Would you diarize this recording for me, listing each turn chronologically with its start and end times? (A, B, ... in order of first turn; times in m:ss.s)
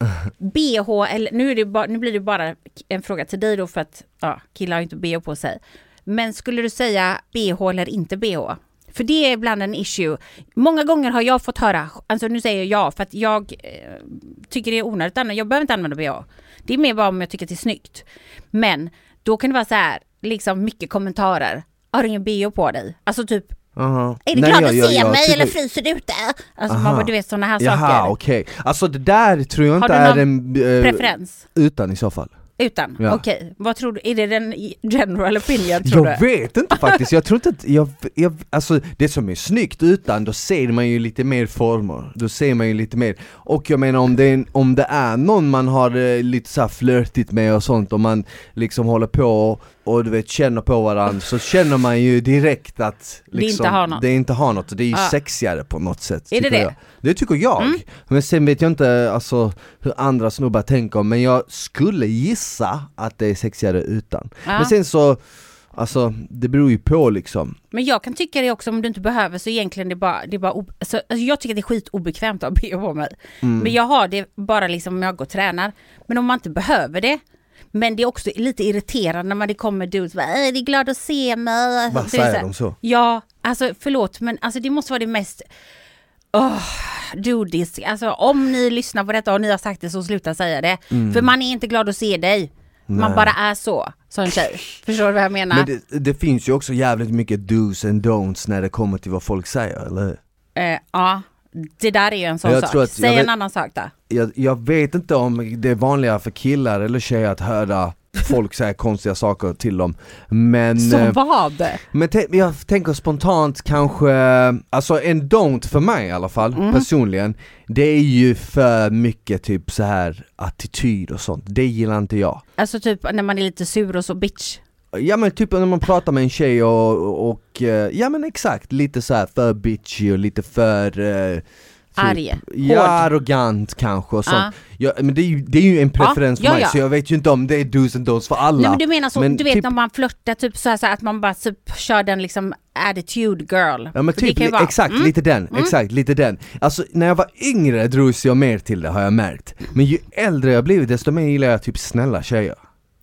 0:00.4-0:23.6 A
0:23.8-0:25.6 B
0:24.3-0:28.1 A
0:26.7-0:32.3 B
0:29.8-0:30.3 A
0:30.8-0:31.4 A
0:32.6-0:36.2 A
0:33.0-0:33.2 B
0:35.8-1:05.2 B
0:36.7-0:37.0 A
0:53.3-0:54.0 A
0:56.3-0:56.8 A
1:04.4-1:04.7 A
1:05.7-1:07.6 B
1:07.7-1:17.2 A
1:13.4-1:13.8 B
1:17.7-1:25.5 A
1:21.9-1:22.8 B
1:26.3-1:35.7 A
1:30.9-1:31.3 B
1:32.9-1:33.3 B
1:35.5-1:40.2 B
1:40.6-1:43.9 A
1:42.4-1:43.3 B
1:44.1-1:51.2 B
1:50.8-1:51.8 A
1:51.9-2:02.4 B
1:56.6-1:56.9 A
2:02.6-2:04.6 A
2:04.9-2:19.7 B
2:12.0-2:13.1 A
2:14.3-2:14.5 A
2:16.0-2:16.8 A
2:18.6-2:25.7 A
2:24.0-2:32.6 B